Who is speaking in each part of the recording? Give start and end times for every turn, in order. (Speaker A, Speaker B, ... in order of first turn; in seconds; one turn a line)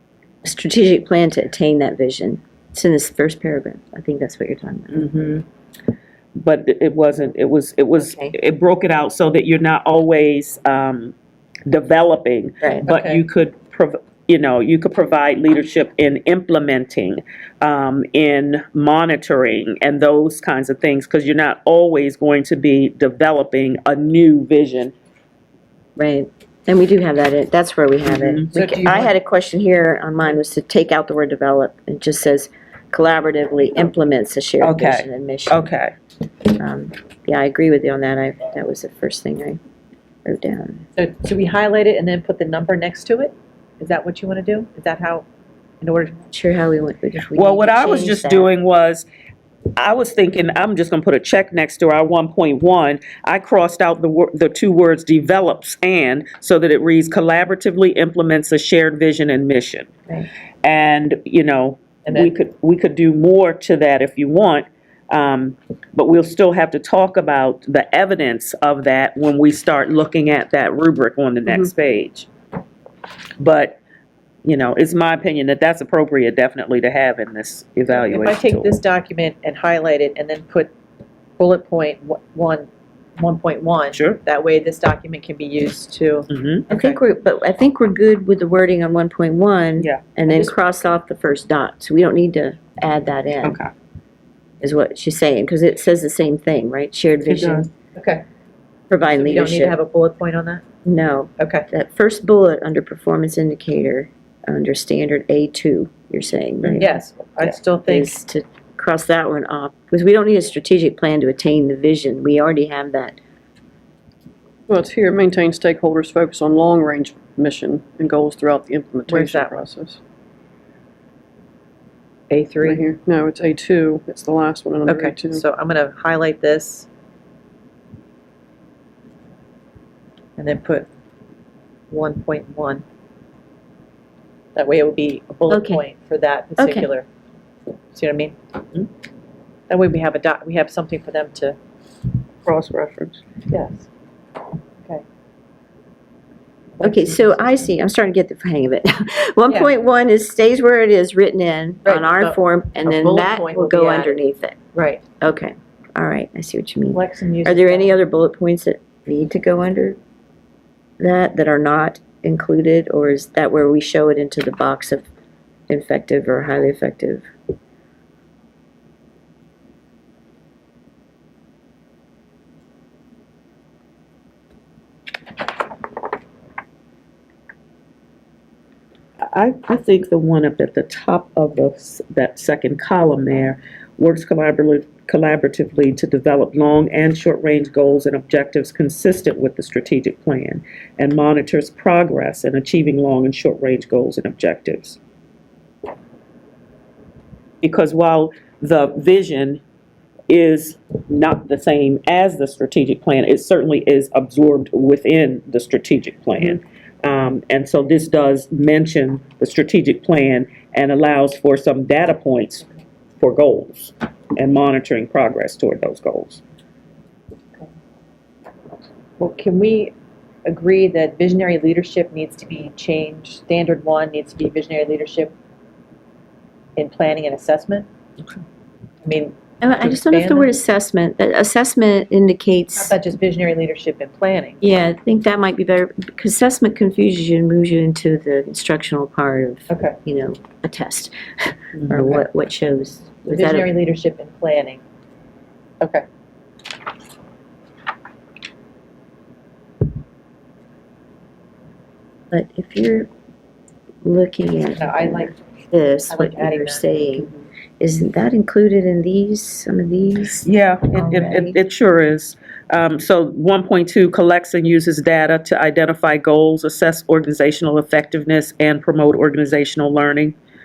Speaker A: 0.4-5.1
Speaker B: 4.9-5.4
Speaker B: 6.3-11.1
Speaker B: 11.7-24.9
Speaker C: 12.9-13.2
Speaker A: 25.9-35.7
Speaker B: 28.0-28.5
Speaker C: 28.5-29.1
Speaker B: 34.6-35.9
Speaker A: 36.5-39.6
Speaker A: 40.2-40.8
Speaker C: 41.0-45.2
Speaker C: 45.8-46.2
Speaker A: 46.3-48.5
Speaker B: 47.3-49.1
Speaker B: 49.8-59.9
Speaker B: 60.6-72.3
Speaker B: 73.4-73.8
Speaker B: 74.4-78.7
Speaker C: 77.9-80.7
Speaker C: 81.4-82.7
Speaker C: 83.2-87.0
Speaker B: 83.9-84.2
Speaker B: 86.3-86.6
Speaker A: 86.7-93.6
Speaker B: 93.4-93.7
Speaker A: 94.6-97.7
Speaker B: 97.3-97.7
Speaker C: 98.0-98.2
Speaker A: 98.9-99.7
Speaker C: 99.0-100.6
Speaker A: 100.8-107.0
Speaker C: 101.4-101.7
Speaker B: 106.6-106.9
Speaker C: 106.8-108.1
Speaker A: 107.8-113.2
Speaker D: 114.7-120.0
Speaker C: 119.1-119.6
Speaker C: 122.3-122.8
Speaker D: 122.6-125.4
Speaker C: 124.8-126.9
Speaker C: 130.4-130.9
Speaker C: 131.9-132.8
Speaker C: 134.5-137.1
Speaker A: 135.5-135.8
Speaker A: 136.6-136.9
Speaker C: 137.9-138.3
Speaker C: 139.7-141.6
Speaker B: 142.4-143.2
Speaker C: 143.5-143.9
Speaker C: 146.8-147.5
Speaker A: 146.8-154.6
Speaker C: 151.8-154.2
Speaker C: 154.7-155.0
Speaker A: 155.2-160.0
Speaker C: 156.9-157.9
Speaker A: 161.0-165.0
Speaker A: 165.7-167.2
Speaker B: 179.2-195.0
Speaker B: 197.6-199.6
Speaker B: 200.3-212.7
Speaker B: 213.2-216.4
Speaker C: 219.2-219.9
Speaker C: 220.4-225.3
Speaker C: 226.8-227.9
Speaker C: 229.0-230.5
Speaker A: 229.6-232.9
Speaker C: 232.7-234.6
Speaker A: 234.6-243.7
Speaker C: 239.7-240.0
Speaker C: 243.2-244.8
Speaker A: 252.3-253.1
Speaker A: 254.0-261.6
Speaker C: 254.8-255.4
Speaker C: 256.1-256.9
Speaker B: 260.4-270.4